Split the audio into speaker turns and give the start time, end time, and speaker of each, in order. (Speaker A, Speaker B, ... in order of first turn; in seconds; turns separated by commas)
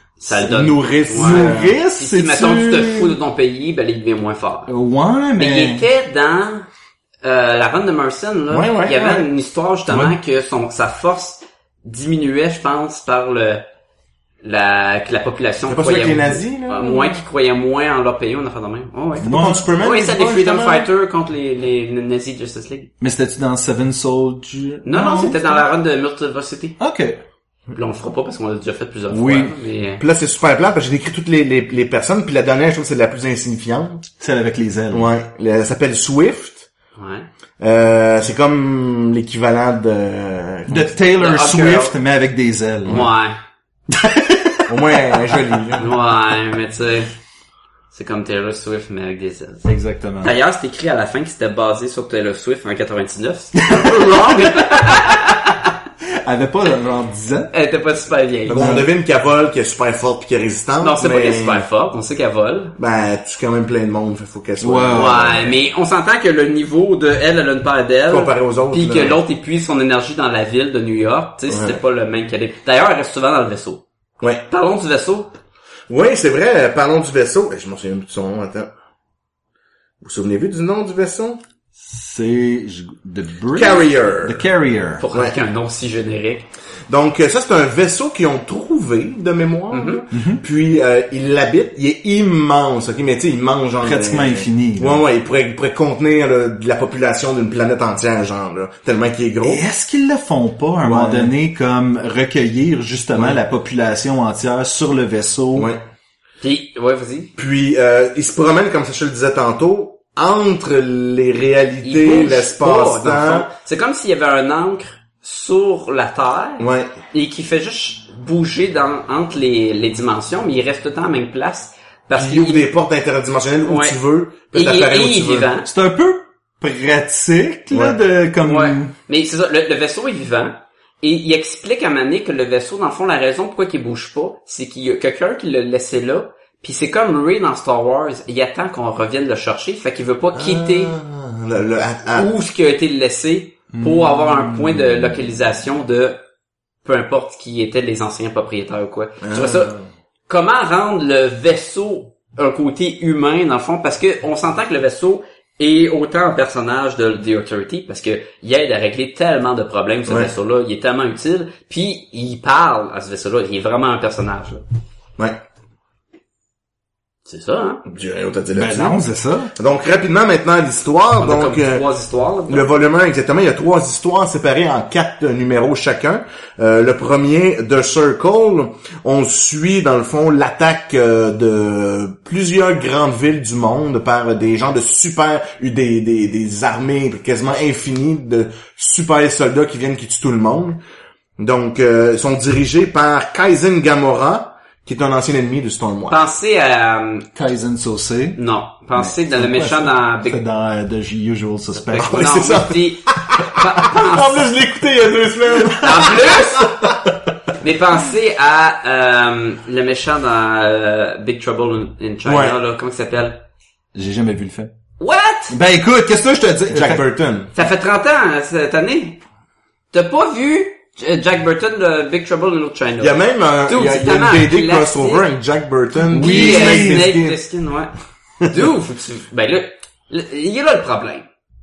Speaker A: 0.2-4.7, Speaker B: 0.3-1.8, Speaker C: 1.1-3.1, Speaker C: 4.7-5.8, Speaker A: 5.4-6.7, Speaker A: 7.2-13.6, Speaker B: 8.5-9.3, Speaker C: 9.9-10.1, Speaker A: 14.4-22.9, Speaker B: 15.7-17.2, Speaker C: 19.2-19.7, Speaker B: 19.2-20.9, Speaker C: 23.0-25.6, Speaker A: 24.8-26.8, Speaker C: 26.8-27.2, Speaker A: 27.7-30.0, Speaker C: 29.1-29.5, Speaker B: 30.0-34.1, Speaker C: 34.2-35.1, Speaker B: 34.9-36.7, Speaker A: 37.0-37.3, Speaker B: 37.6-40.9, Speaker C: 40.7-43.1, Speaker A: 41.2-42.0, Speaker A: 42.9-43.4, Speaker C: 43.9-45.6, Speaker B: 44.7-45.9, Speaker A: 45.8-47.1, Speaker A: 47.9-49.7, Speaker C: 49.6-50.3, Speaker A: 50.2-55.7, Speaker C: 53.5-55.2, Speaker C: 56.0-57.5, Speaker A: 57.5-58.7, Speaker B: 58.5-61.6, Speaker C: 58.5-58.9, Speaker A: 60.8-62.8, Speaker B: 62.8-65.6, Speaker C: 64.6-65.4, Speaker A: 64.9-73.8, Speaker B: 68.1-69.2, Speaker B: 71.5-71.8, Speaker B: 74.2-74.4, Speaker A: 74.5-75.4, Speaker B: 75.9-78.7, Speaker B: 80.0-81.4, Speaker C: 81.8-85.0, Speaker B: 83.5-84.4, Speaker A: 85.0-86.5, Speaker B: 86.9-99.6, Speaker A: 89.7-90.0, Speaker C: 90.1-90.4, Speaker C: 93.8-95.0, Speaker C: 99.4-105.7, Speaker B: 100.8-101.3, Speaker B: 105.5-105.8, Speaker A: 106.4-107.3, Speaker B: 107.4-113.5, Speaker A: 111.8-122.7, Speaker B: 116.6-116.9, Speaker B: 122.1-125.5, Speaker A: 123.6-124.0, Speaker A: 124.5-125.7, Speaker C: 125.7-128.9, Speaker B: 127.7-128.0, Speaker A: 128.4-140.9, Speaker B: 140.3-142.3, Speaker A: 142.1-146.2, Speaker C: 143.7-145.2, Speaker A: 146.8-149.7, Speaker B: 149.2-149.8, Speaker A: 150.3-164.6, Speaker A: 167.3-167.8, Speaker B: 167.8-169.0, Speaker C: 168.5-169.5, Speaker B: 169.6-171.8, Speaker A: 171.2-172.7, Speaker B: 172.5-190.8, Speaker B: 191.4-196.2, Speaker A: 196.1-197.3, Speaker C: 197.3-198.4, Speaker A: 198.4-200.4, Speaker C: 198.9-202.3, Speaker A: 201.7-204.4, Speaker B: 202.0-206.9, Speaker A: 205.8-206.8, Speaker A: 207.6-213.4, Speaker B: 212.2-212.6, Speaker C: 213.9-214.7, Speaker A: 215.0-215.6, Speaker C: 215.5-217.0, Speaker B: 216.7-217.5, Speaker A: 217.5-219.2, Speaker A: 219.9-225.2, Speaker B: 223.0-227.4, Speaker C: 226.1-227.1, Speaker A: 226.1-227.9, Speaker A: 228.5-231.3